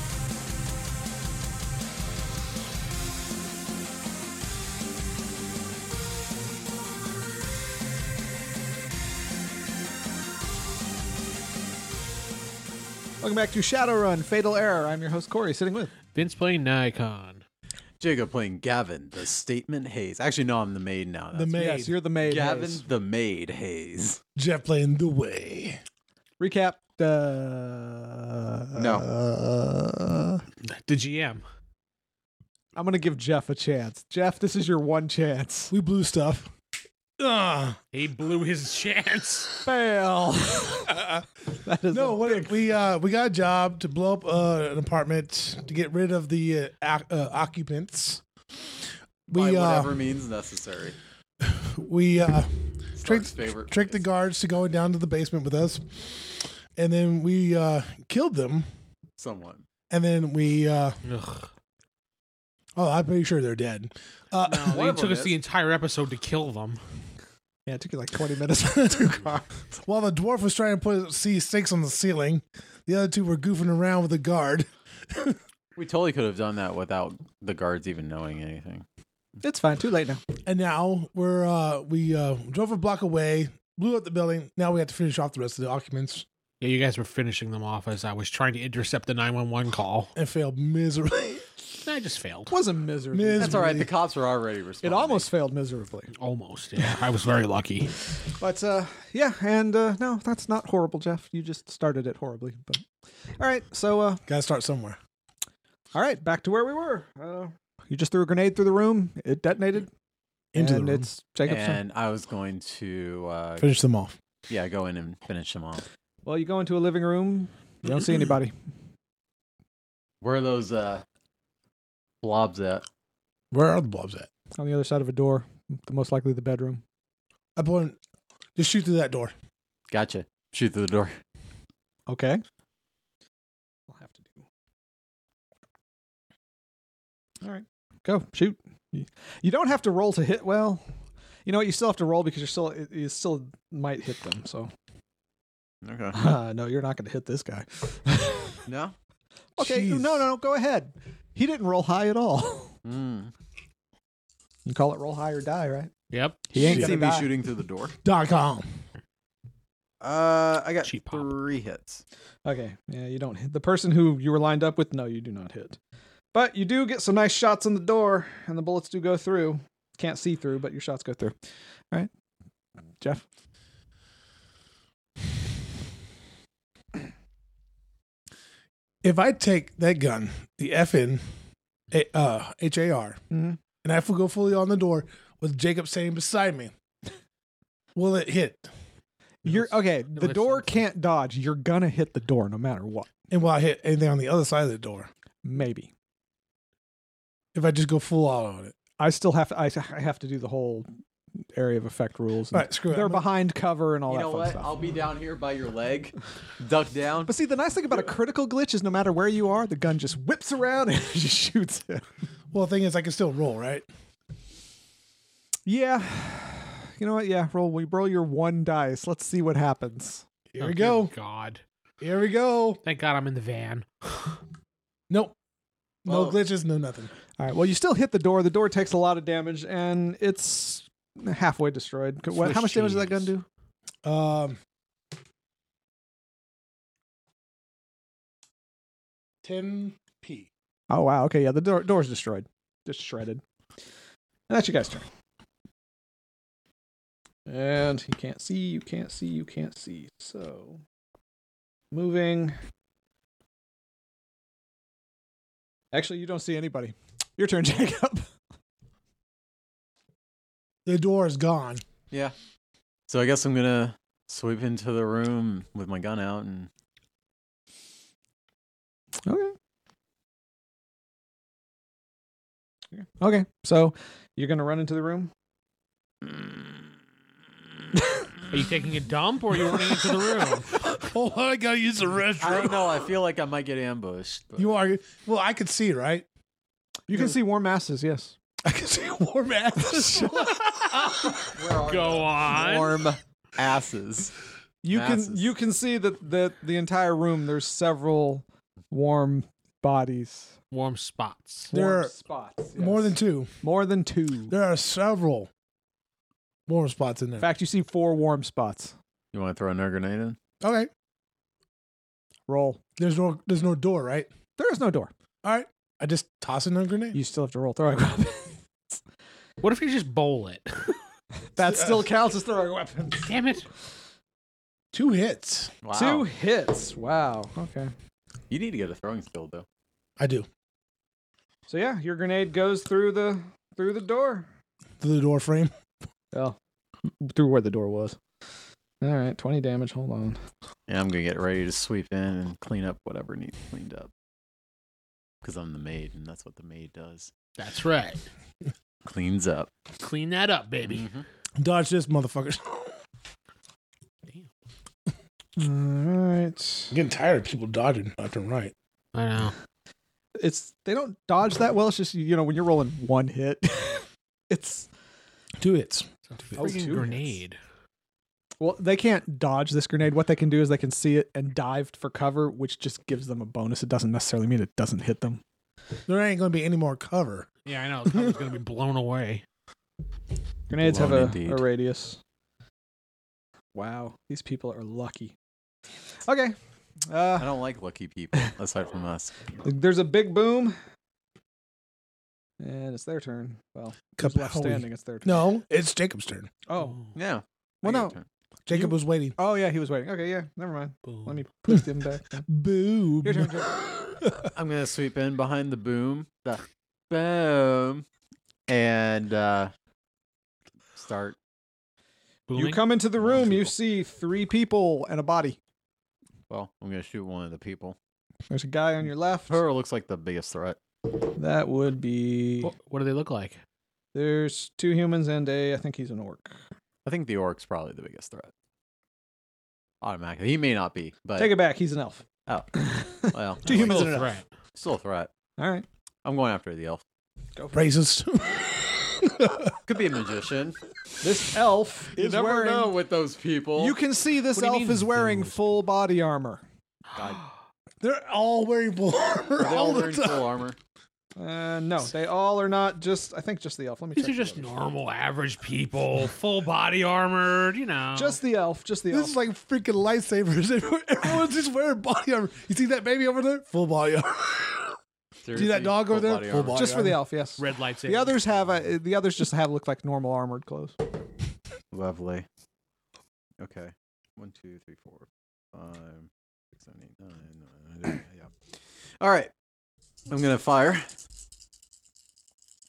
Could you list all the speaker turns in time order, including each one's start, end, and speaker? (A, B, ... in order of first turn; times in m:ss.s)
0:13.2-0:15.9 A
0:16.1-0:17.4 B
0:18.0-0:24.2 C
0:21.3-0:22.0 D
0:21.5-0:22.8 A
0:24.4-0:25.8 D
0:26.4-0:30.4 A
0:28.8-0:29.0 C
0:30.6-0:31.4 B
0:32.8-0:35.7 A
0:35.7-0:36.5 D
0:37.2-0:37.8 D
0:37.9-0:39.6 B
0:39.6-0:41.0 A
0:40.9-0:41.2 D
0:41.6-0:42.6 A
0:41.9-0:48.2 D
0:49.3-0:50.0 D
0:49.3-0:51.0 C
0:51.4-0:58.7 D
0:53.0-0:54.0 C
0:59.2-0:59.6 C
0:59.9-1:01.0 D
1:01.0-1:01.5 B
1:02.8-1:04.9 D
1:04.5-1:06.8 B
1:04.5-1:05.4 C
1:07.7-1:09.4 A
1:09.8-1:15.4 D
1:15.7-1:18.8 C
1:19.4-1:20.2 A
1:20.4-1:26.2 D
1:26.6-1:30.1 B
1:30.2-1:31.6 D
1:31.8-1:32.6 B
1:32.5-1:33.7 A
1:33.1-1:33.9 D
1:33.4-1:35.3 C
1:34.8-1:36.1 A
1:36.2-1:37.9 B
1:38.4-1:42.8 A
1:43.4-1:44.2 A
1:44.2-1:45.0 D
1:45.9-1:49.9 A
1:50.5-1:51.1 D
1:50.6-1:51.8 A
1:51.4-1:53.7 C
1:53.6-1:54.2 D
1:54.5-1:55.8 C
1:56.2-1:58.5 A
2:00.2-2:01.0 C
2:02.2-2:02.8 C
2:03.5-2:04.3 D
2:04.6-2:06.8 A
2:07.6-2:08.0 D
2:08.6-2:09.3 D
2:09.9-2:11.2 C
2:12.1-2:12.4 A
2:13.9-2:14.4 A
2:17.4-2:20.8 A
2:21.4-2:24.7 A
2:25.8-2:26.2 C
2:26.1-2:28.6 A
2:28.7-2:28.9 C
2:29.6-2:32.7 A
2:29.6-2:30.3 D
2:32.8-2:33.3 C
2:34.6-2:35.9 A
2:36.1-2:36.4 B
2:36.5-2:37.3 A
2:36.6-2:37.3 D
2:36.6-2:37.9 C
2:38.0-2:38.7 D
2:40.0-2:42.0 C
2:40.8-2:41.2 B
2:42.4-2:45.8 A
2:46.3-2:51.4 A
2:53.0-2:53.2 A
2:59.0-3:01.2 D
3:01.9-3:03.2 D
3:03.3-3:03.6 A
3:03.8-3:06.7 D
3:07.9-3:08.7 D
3:09.4-3:10.8 B
3:09.4-3:13.1 A
3:13.3-3:15.1 D
3:15.4-3:15.9 A
3:17.5-3:18.8 D
3:19.0-3:20.9 A
3:21.5-3:24.8 A
3:22.5-3:23.3 D
3:24.1-3:27.3 C
3:27.3-3:32.0 A
3:32.5-3:33.9 D
3:35.6-3:40.2 A
3:40.5-3:41.1 D
3:40.6-3:41.6 B
3:42.0-3:42.8 D
3:42.8-3:44.4 B
3:46.0-3:47.1 D
3:46.0-3:46.4 C
3:47.4-3:53.4 A
3:52.4-3:53.3 B
3:54.0-3:54.6 D
3:59.4-4:00.5 D
4:00.9-4:03.4 A
4:04.5-4:05.0 A
4:07.5-4:10.8 A
4:11.9-4:12.6 A
4:15.9-4:18.3 A
4:20.8-4:21.8 D
4:23.1-4:26.7 C
4:29.2-4:29.5 A
4:33.2-4:35.3 A
4:36.2-4:36.5 C
4:38.5-4:40.8 B
4:40.7-4:43.1 D
4:42.4-4:44.7 C
4:44.6-4:46.2 D
4:47.1-4:48.4 A
4:47.1-4:47.4 D
4:48.6-4:51.4 D
4:49.8-4:50.5 A
4:50.6-4:53.0 B
4:51.3-4:54.4 C
4:54.8-5:00.5 A
4:54.9-4:55.5 C
5:00.7-5:01.7 B
5:01.7-5:04.6 A
5:01.7-5:02.1 D
5:02.7-5:03.5 D
5:04.5-5:05.5 D
5:06.7-5:07.5 D
5:07.4-5:08.9 A
5:09.3-5:10.4 C
5:10.6-5:10.9 D
5:12.5-5:12.8 A
5:13.0-5:14.3 D
5:14.6-5:15.1 A
5:15.4-5:17.2 D
5:17.1-5:18.6 A
5:19.6-5:20.9 B
5:21.6-5:23.3 A
5:21.6-5:22.0 D
5:23.2-5:23.7 B
5:24.9-5:25.7 D
5:25.8-5:26.3 C
5:25.9-5:27.9 A
5:28.5-5:29.6 C
5:30.2-5:30.5 D
5:31.7-5:34.4 A
5:35.0-5:35.7 D
5:36.3-5:36.6 A
5:37.1-5:38.2 A
5:39.0-5:40.4 A
5:40.9-5:44.1 C
5:45.4-5:47.3 C
5:47.6-5:48.2 B
5:49.0-5:49.7 C
5:50.0-5:51.1 B
5:50.9-5:51.2 C
5:51.6-5:52.9 D
5:55.6-5:57.0 A
5:56.9-5:58.7 D
5:59.1-5:59.5 B
6:00.4-6:04.9 A
6:05.6-6:06.1 D
6:06.3-6:07.6 B
6:06.6-6:07.0 A
6:08.6-6:15.4 A
6:16.1-6:17.5 D
6:17.6-6:19.4 B
6:20.7-6:22.2 A
6:20.8-6:21.6 C
6:23.7-6:25.3 A
6:26.2-6:26.6 A
6:27.1-6:27.5 A
6:27.4-6:29.5 C
6:29.6-6:30.8 A
6:32.6-6:35.5 A
6:34.2-6:36.5 D
6:36.7-6:37.1 A
6:37.1-6:38.2 C
6:37.8-6:38.2 A
6:38.6-6:39.3 D
6:38.7-6:42.5 A
6:42.4-6:44.5 D
6:43.2-6:43.7 A
6:44.5-6:48.0 C
6:48.7-6:49.7 C
6:50.9-6:51.4 C
6:52.5-6:52.8 B
6:52.5-6:55.6 A
6:53.2-6:53.7 C
6:56.5-6:58.0 C
6:58.5-6:59.6 A
6:59.5-7:00.8 C
7:01.4-7:02.7 A
7:02.6-7:03.6 B
7:04.1-7:06.6 A
7:07.0-7:08.5 C
7:10.0-7:11.6 C
7:11.4-7:12.2 A
7:12.5-7:14.2 C
7:12.7-7:14.2 A
7:13.6-7:14.4 B
7:13.7-7:14.3 D
7:14.7-7:15.3 C
7:15.6-7:15.8 A
7:16.2-7:17.0 C
7:17.6-7:17.8 A
7:17.7-7:19.7 D
7:19.8-7:20.8 C
7:21.2-7:23.0 A
7:22.2-7:24.0 C
7:23.8-7:26.6 A
7:24.5-7:25.7 B
7:27.1-7:27.4 C
7:28.0-7:30.5 D
7:29.6-7:30.8 C
7:31.4-7:34.7 A
7:34.2-7:38.4 B
7:38.1-7:39.3 A
7:39.1-7:44.9 D
7:45.4-7:46.9 C
7:45.5-7:47.2 D
7:46.7-7:51.0 A
7:47.6-7:48.3 B
7:51.9-7:52.4 C
7:53.6-7:58.6 C
7:59.2-7:59.5 C
8:00.3-8:01.1 C